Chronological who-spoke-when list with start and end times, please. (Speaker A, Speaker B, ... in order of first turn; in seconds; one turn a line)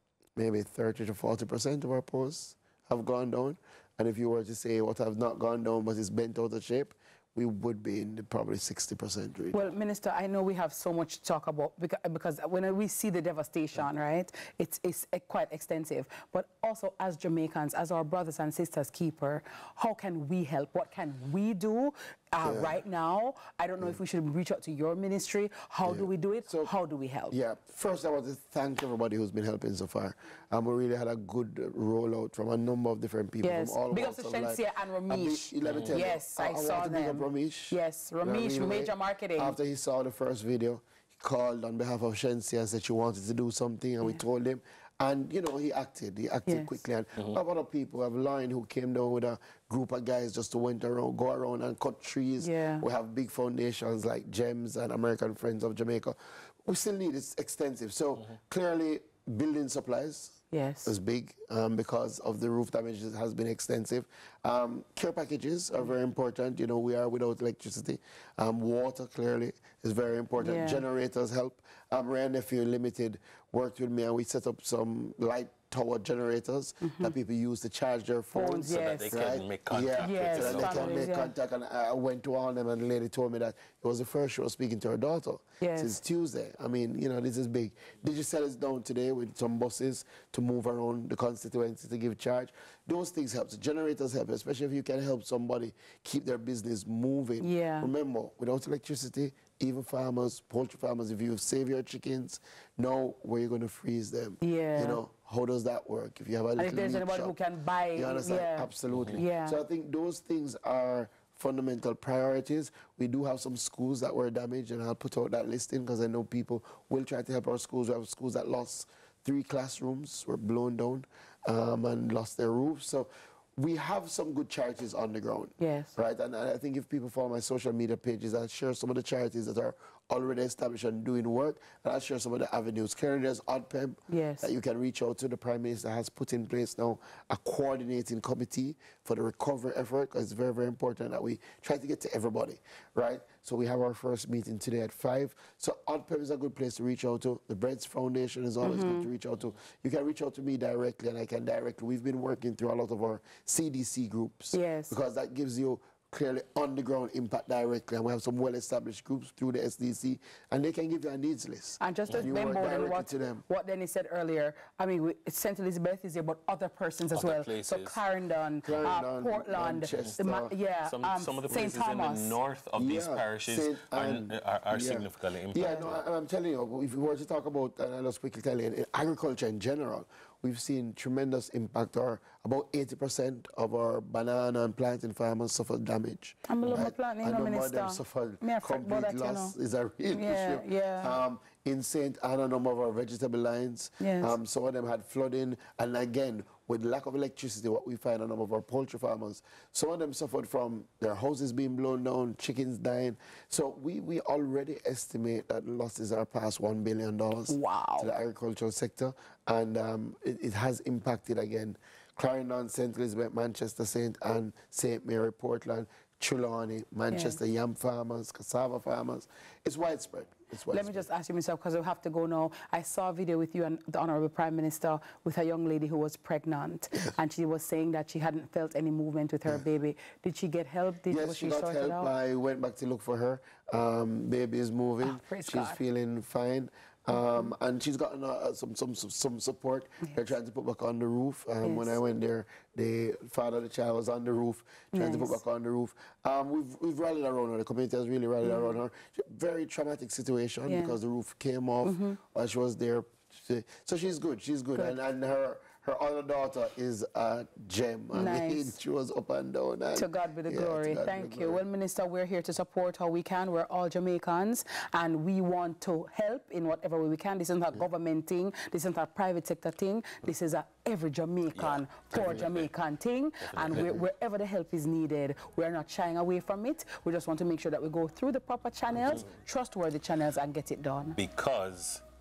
Speaker A: 0.3-9.7
Speaker B: 9.5-27.4
Speaker A: 22.4-22.8
Speaker A: 25.8-26.7
Speaker A: 27.3-107.4
Speaker B: 33.4-39.5
Speaker C: 35.6-36.0
Speaker B: 46.5-46.8
Speaker B: 52.4-52.9
Speaker B: 60.5-60.9
Speaker B: 70.4-70.8
Speaker B: 76.8-77.1
Speaker B: 78.3-79.2
Speaker C: 78.7-81.0
Speaker B: 80.0-81.3
Speaker B: 85.6-86.0
Speaker B: 97.4-97.9
Speaker B: 104.4-105.0
Speaker B: 106.5-109.6
Speaker A: 107.9-163.4
Speaker C: 108.9-109.2
Speaker B: 125.6-125.9
Speaker B: 134.1-134.5
Speaker B: 148.6-149.1
Speaker B: 154.5-154.9
Speaker B: 161.8-172.4
Speaker C: 167.1-168.0
Speaker A: 168.6-170.6
Speaker C: 169.9-170.2
Speaker C: 170.8-176.0
Speaker A: 172.8-221.1
Speaker B: 175.6-175.9
Speaker B: 186.4-189.6
Speaker C: 186.6-186.9
Speaker B: 190.1-191.1
Speaker B: 194.0-194.4
Speaker B: 207.5-208.1
Speaker B: 217.1-217.4
Speaker B: 220.7-232.1
Speaker A: 231.1-261.6
Speaker B: 235.0-235.8
Speaker B: 237.2-237.4
Speaker B: 241.6-242.0
Speaker B: 244.9-245.4
Speaker B: 248.4-248.8
Speaker B: 250.7-251.0
Speaker B: 251.8-252.2
Speaker B: 258.1-258.8
Speaker B: 259.9-281.2
Speaker C: 271.5-272.7
Speaker C: 273.4-274.0
Speaker C: 281.1-282.0